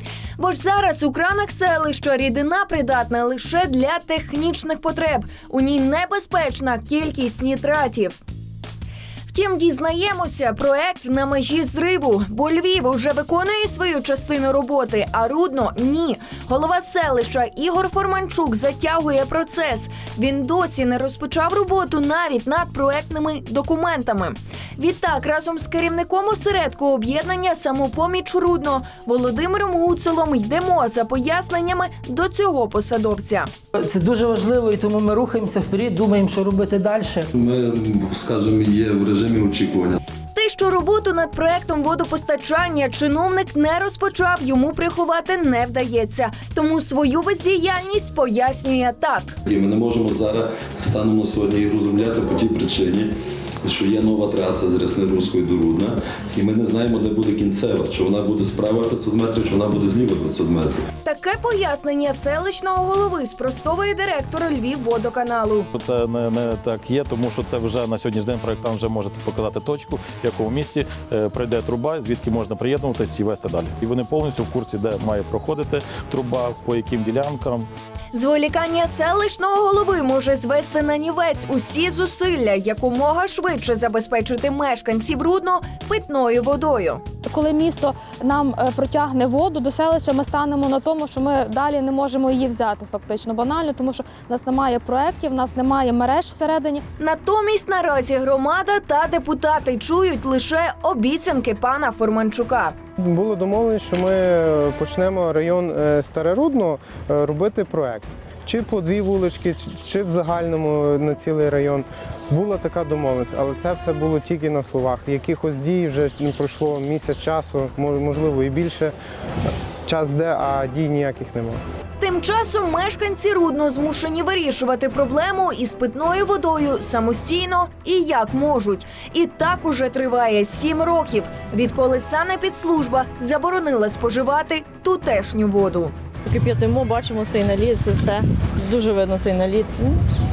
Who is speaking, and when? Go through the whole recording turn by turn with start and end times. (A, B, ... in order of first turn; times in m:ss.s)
0:00.4-0:08.2 A
0:09.3-0:33.5 A
0:33.7-0:37.3 B
0:37.4-0:40.0 C
0:40.3-0:49.4 A
0:49.5-0:53.1 C
0:53.6-1:00.8 C
1:01.0-1:05.7 A
1:05.7-1:17.7 D
1:18.1-1:27.0 A
1:27.2-1:36.8 E
1:37.0-1:42.7 A
1:43.0-1:58.9 F
1:59.8-2:01.6 F
2:02.0-2:15.9 A
2:16.2-2:20.0 G